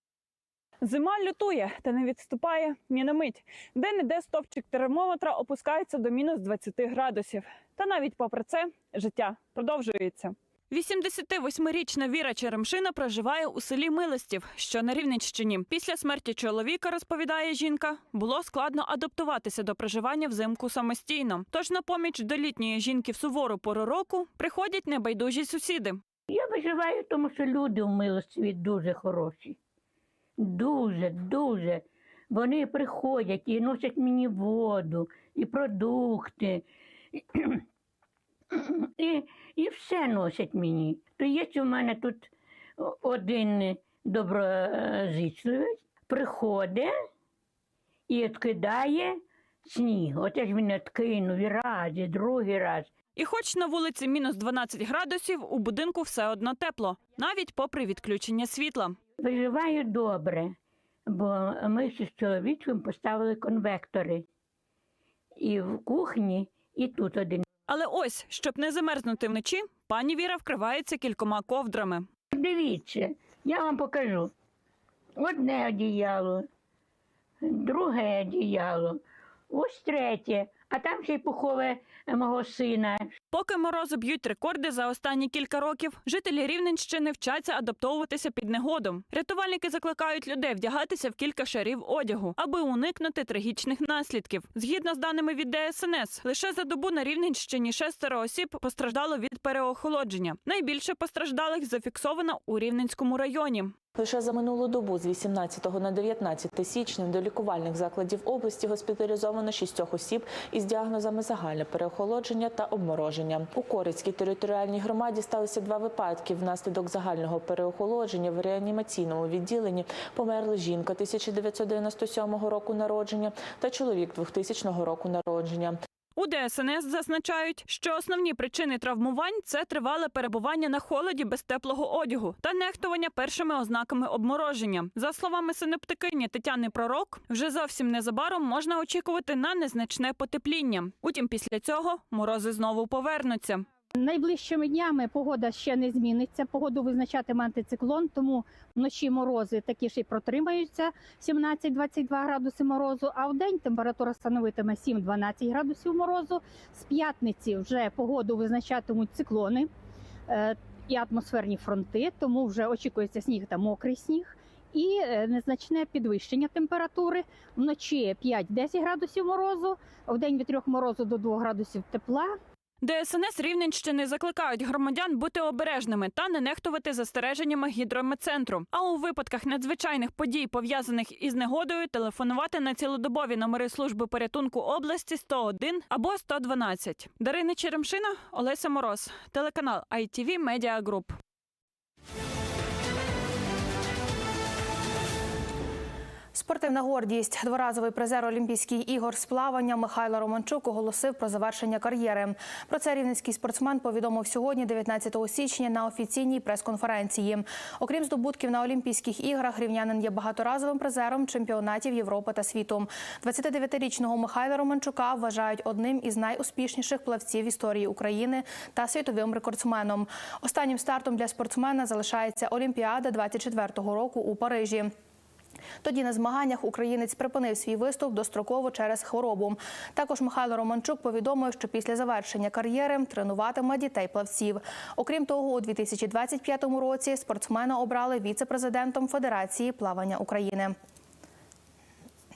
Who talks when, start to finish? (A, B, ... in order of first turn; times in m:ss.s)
0:00.8-0:26.0 A
0:26.3-0:29.6 B
0:30.4-0:36.6 B
0:37.1-0:37.6 B
0:38.6-0:42.3 B
0:42.8-0:47.0 B
0:48.1-0:52.9 B
0:53.2-0:59.0 A
0:59.2-1:00.5 B
1:01.1-1:04.2 B
1:05.4-1:07.4 B
1:07.7-1:12.1 A
1:12.3-1:14.3 B
1:15.2-1:16.4 B
1:17.4-1:19.0 B
1:19.5-1:23.1 B
1:23.3-1:43.8 A
1:44.0-2:05.8 C
2:06.2-2:23.6 A
2:24.0-2:39.7 D
2:40.3-2:52.3 D
2:52.8-3:11.2 A
3:16.3-3:44.9 E
3:45.8-4:00.7 E